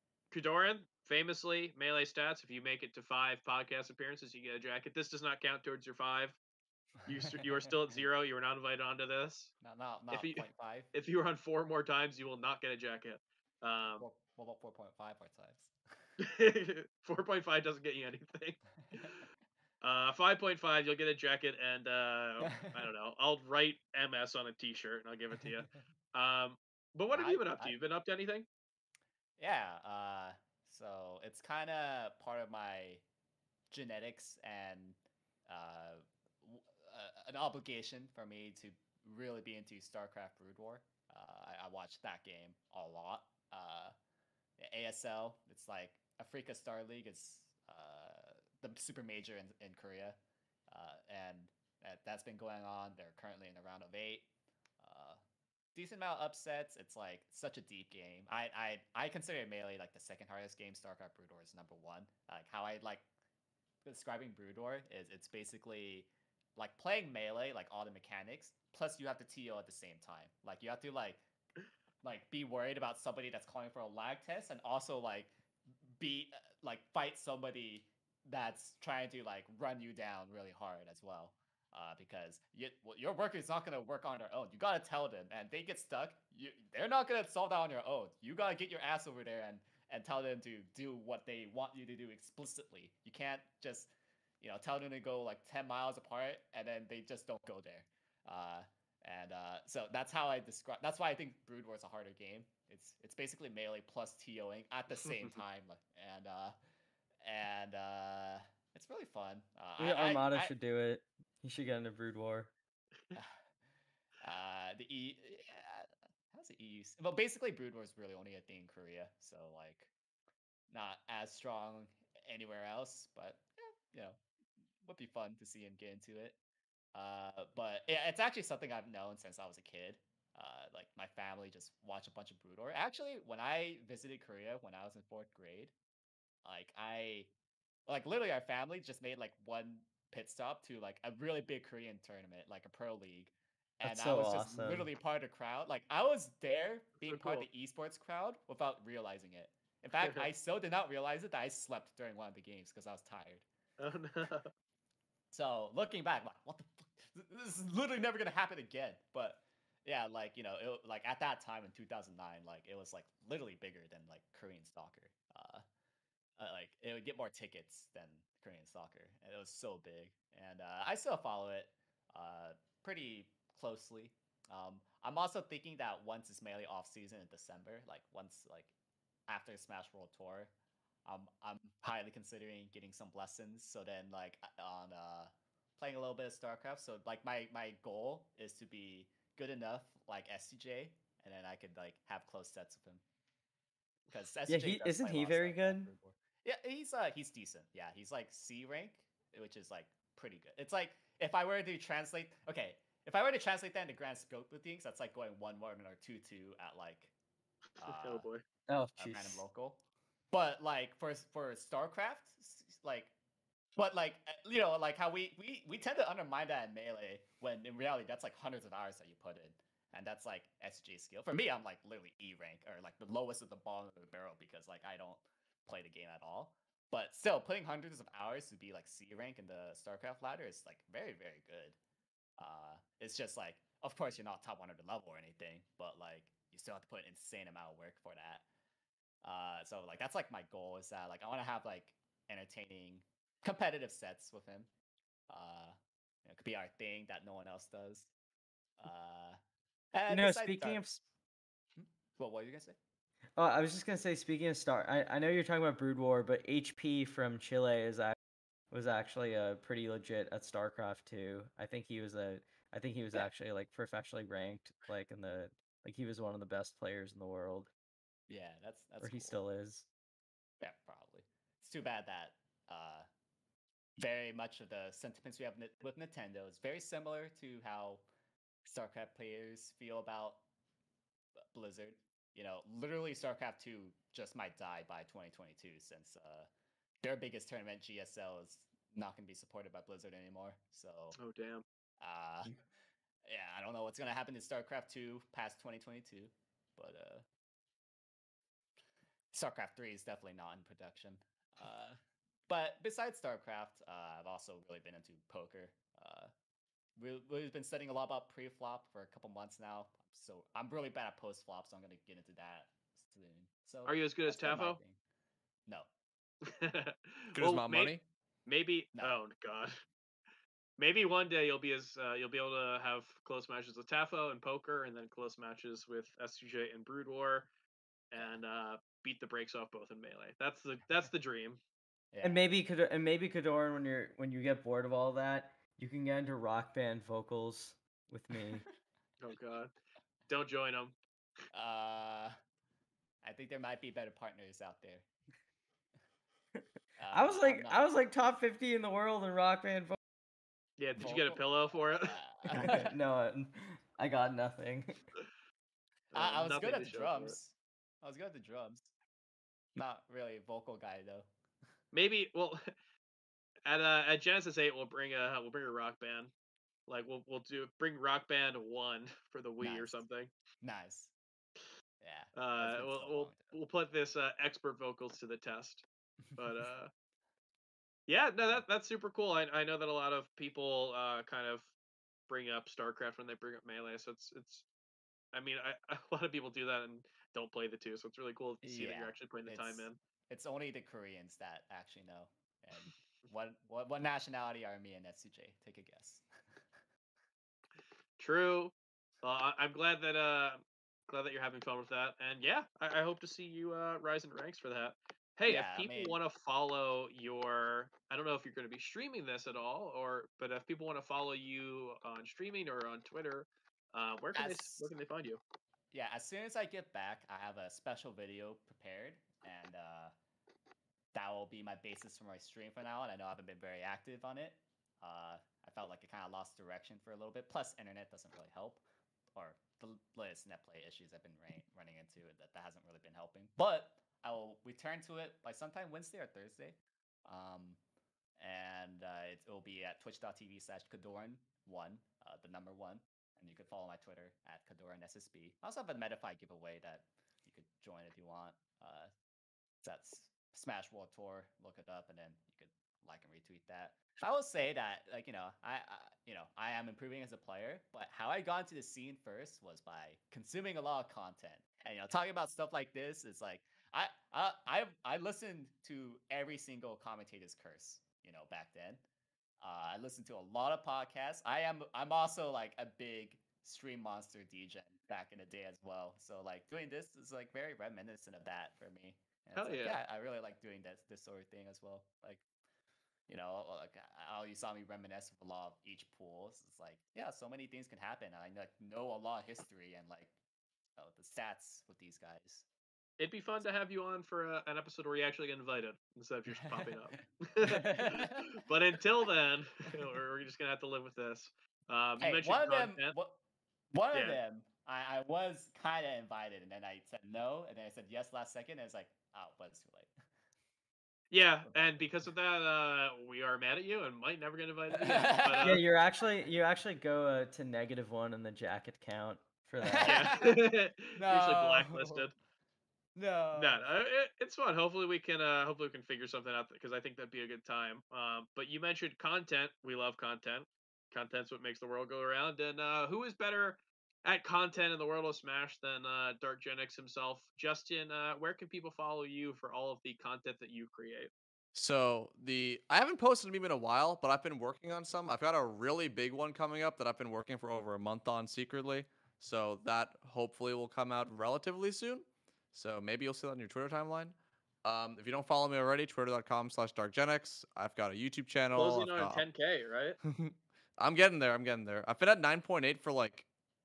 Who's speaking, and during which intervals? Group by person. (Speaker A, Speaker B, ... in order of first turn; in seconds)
Speaker A: 0.3-6.4, 7.1-9.5, 10.1-14.0, 16.2-19.2, 19.8-28.5, 105.0-105.4, 147.0-147.5, 150.0-150.3, 153.8-154.5, 207.8-208.4, 291.2-291.6, 313.9-314.8, 316.4-317.9, 318.5-319.8, 320.8-327.5, 328.1-331.6, 339.2-339.7, 340.3-341.0, 350.8-352.2, 356.1-357.4, 361.9-362.7, 363.7-366.3, 366.9-370.3, 372.4-375.8, 376.4-376.9, 378.1-381.7, 382.3-384.7, 385.3-390.0, 398.2-415.4, 479.6-480.0, 493.2-503.1, 504.1-504.4, 511.3-515.8, 520.0-522.3, 523.5-541.3, 558.8-560.2
Speaker B: 7.4-7.7, 9.6-10.9, 14.0-15.7, 22.4-22.8, 27.1-27.8, 29.4-33.0, 33.7-43.9, 44.6-50.2, 50.7-54.3, 54.8-55.2, 55.8-63.1, 63.9-71.2, 72.0-75.3, 76.0-106.5, 107.2-110.5, 114.2-119.9, 120.7-124.2, 124.8-126.4, 126.9-135.7, 136.4-137.3, 137.9-153.4, 155.3-165.6, 166.4-178.7, 179.3-180.5, 181.1-193.0, 194.1-207.1, 207.8-208.3, 209.0-213.1, 213.8-231.8, 232.4-238.4, 239.2-244.7, 245.3-248.1, 248.8-249.4, 249.9-250.8, 251.8-252.8, 268.3-269.4, 270.6-273.1, 274.0-278.1, 278.6-280.4, 281.5-286.5, 287.0-291.2, 292.0-292.6, 293.3-297.2, 299.3-302.0, 302.5-306.3, 307.0-315.0, 332.1-332.4, 341.5-342.4, 343.2-345.1, 347.0-347.8, 351.0-351.5, 352.0-352.9, 356.1-358.9, 359.8-361.3, 369.6-370.0, 370.6-371.1, 372.0-373.5, 388.6-396.3, 405.5-406.2, 414.4-414.9, 415.9-420.1, 421.1-428.8, 429.4-437.8, 438.4-449.1, 449.8-469.0, 469.6-482.4, 483.3-490.3, 491.0-492.7, 497.6-498.6, 502.2-503.4, 503.9-510.1, 515.0-515.8, 519.8-520.6, 521.2-522.3, 523.1-523.8
Speaker C: 109.8-112.5, 143.8-144.9, 194.5-195.9, 208.7-209.5, 250.1-251.0, 253.4-258.2, 258.7-267.7, 269.0-269.9, 332.2-338.7, 347.1-350.0, 352.6-355.0, 515.6-520.4
Speaker D: 317.3-318.0, 541.7-559.5, 560.2-563.5